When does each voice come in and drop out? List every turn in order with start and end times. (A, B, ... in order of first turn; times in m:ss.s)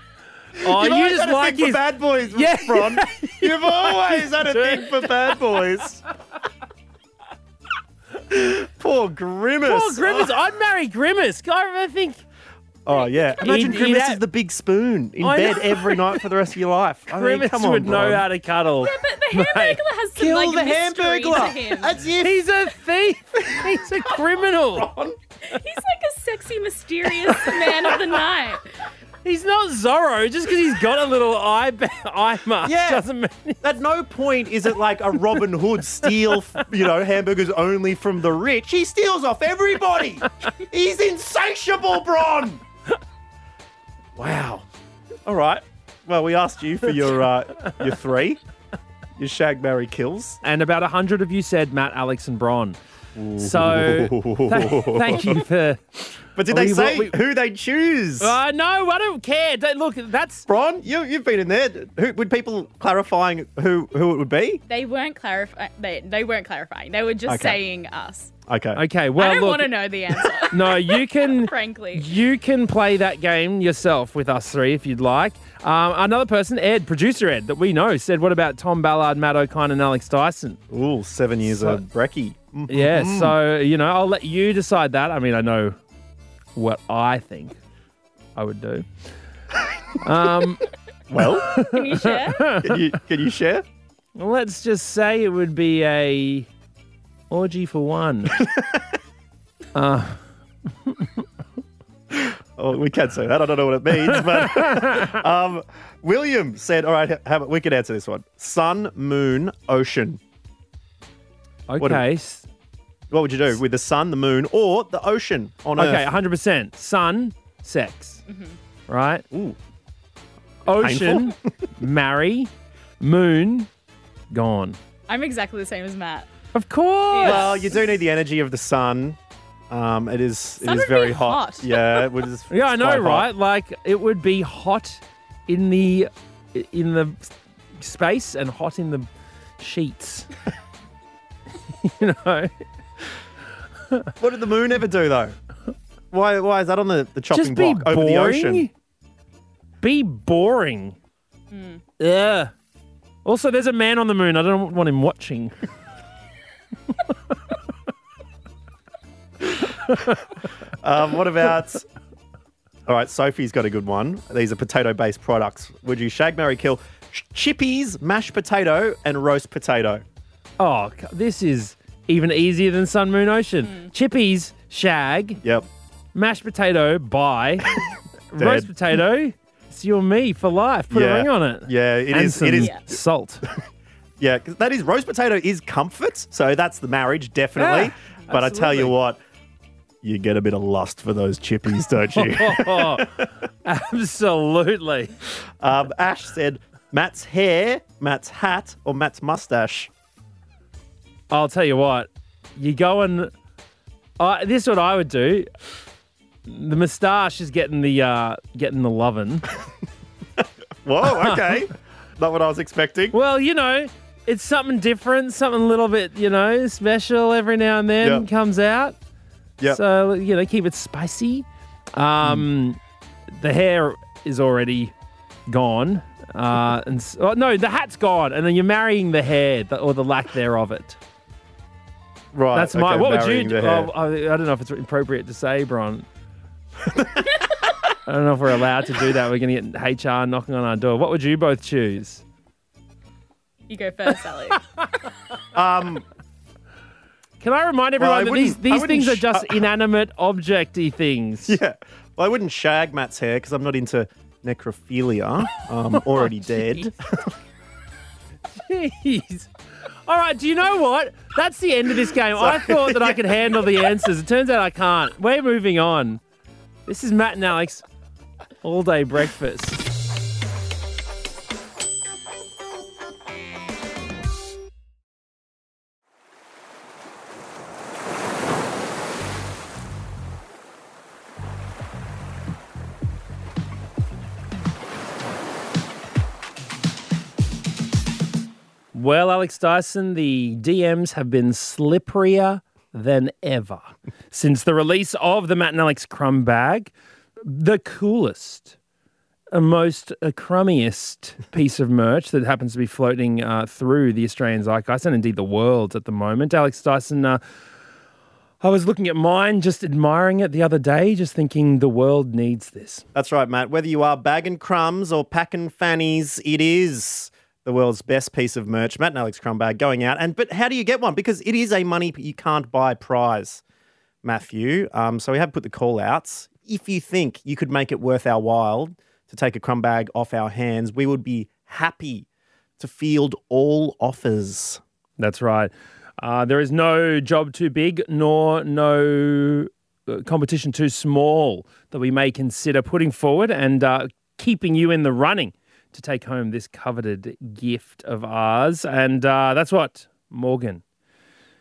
0:00.6-0:05.1 A
0:00.6-0:06.0 B
0:08.3-0:10.3 B
0:09.6-0:12.2 A
0:12.8-0:18.2 B
0:13.4-0:14.2 A
0:15.2-0:16.2 A
0:17.1-0:19.8 A
0:18.8-0:22.0 C
0:20.2-0:22.4 B
0:22.2-0:24.9 A
0:23.5-0:24.1 B
0:24.7-0:25.2 B
0:25.5-0:28.7 C
0:29.2-0:33.6 A
0:32.6-0:33.0 B
0:33.6-0:42.6 B
0:44.2-0:44.7 B
0:45.2-0:48.4 B
0:49.2-0:50.4 B
0:50.4-0:52.8 A
0:53.2-0:55.4 B
0:53.4-0:57.2 A
0:56.4-0:58.4 B
0:58.2-1:00.5 A
1:00.5-1:04.6 B
1:04.7-1:08.3 C
1:07.2-1:07.6 B
1:08.5-1:08.8 B
1:08.7-1:09.7 A
1:09.2-1:12.1 C
1:10.5-1:20.6 A
1:20.7-1:23.4 B
1:21.4-1:21.8 A
1:22.7-1:25.8 A
1:26.5-1:27.6 A
1:28.4-1:29.1 A
1:30.0-1:30.6 A
1:31.1-1:31.5 B
1:31.5-1:32.8 A
1:31.6-1:32.5 C
1:32.6-1:33.6 B
1:34.2-1:36.5 A
1:37.3-1:38.4 A
1:38.4-1:38.8 B
1:39.7-1:40.2 A
1:40.9-1:41.2 A
1:42.1-1:50.2 B
1:44.0-1:45.1 A
1:51.7-1:52.5 A
1:53.1-1:56.1 B
1:55.8-1:58.2 A
1:58.3-1:58.6 C
1:58.9-1:59.2 A
1:59.3-1:59.6 B
2:00.6-2:03.7 A
2:00.8-2:01.4 B
2:04.3-2:04.8 A
2:05.1-2:06.3 C
2:06.5-2:07.5 A
2:07.1-2:07.8 C
2:07.2-2:09.2 B
2:09.7-2:13.3 B
2:10.6-2:12.1 C
2:12.5-2:19.1 A
2:19.6-2:20.3 A
2:21.8-2:22.6 A
2:24.2-2:25.4 B
2:26.1-2:28.7 B
2:27.3-2:28.7 A
2:29.8-2:31.0 A
2:31.5-2:31.8 C
2:32.0-2:32.5 A
2:33.2-2:35.6 A
2:39.9-2:40.2 A
2:40.8-2:41.8 B
2:42.8-2:50.0 B
2:50.6-2:55.4 A
2:53.6-2:53.9 C
2:55.4-2:55.7 B
2:56.1-2:57.7 A
2:57.7-2:58.7 B
2:58.3-3:03.4 A
3:00.9-3:03.0 B
3:04.2-3:09.2 B
3:07.6-3:08.9 A
3:10.0-3:13.3 B
3:12.1-3:15.1 A
3:15.6-3:19.9 B
3:21.3-3:23.3 A
3:24.2-3:25.5 A
3:26.4-3:29.4 A
3:30.4-3:33.2 B
3:31.1-3:31.4 A
3:33.1-3:39.0 A
3:38.0-3:38.2 B
3:39.6-3:44.9 A
3:42.2-3:42.5 B
3:45.5-3:51.0 A
3:52.3-3:53.9 B
3:52.5-3:56.1 A
3:56.8-3:57.5 B
3:58.0-4:02.2 A
4:03.7-4:04.6 C
4:05.5-4:06.0 B
4:07.4-4:11.6 A
4:08.0-4:09.6 B
4:11.4-4:17.3 B
4:15.9-4:16.9 A
4:18.5-4:19.5 A
4:20.0-4:26.2 A
4:22.0-4:23.9 B
4:26.8-4:27.8 A
4:28.6-4:29.8 A
4:48.9-4:56.9 A
4:57.4-4:58.8 A
4:59.5-5:07.4 A
5:08.6-5:13.0 A
5:13.1-5:23.6 B
5:24.2-5:32.3 B
5:32.8-5:34.8 B
5:35.2-5:50.8 A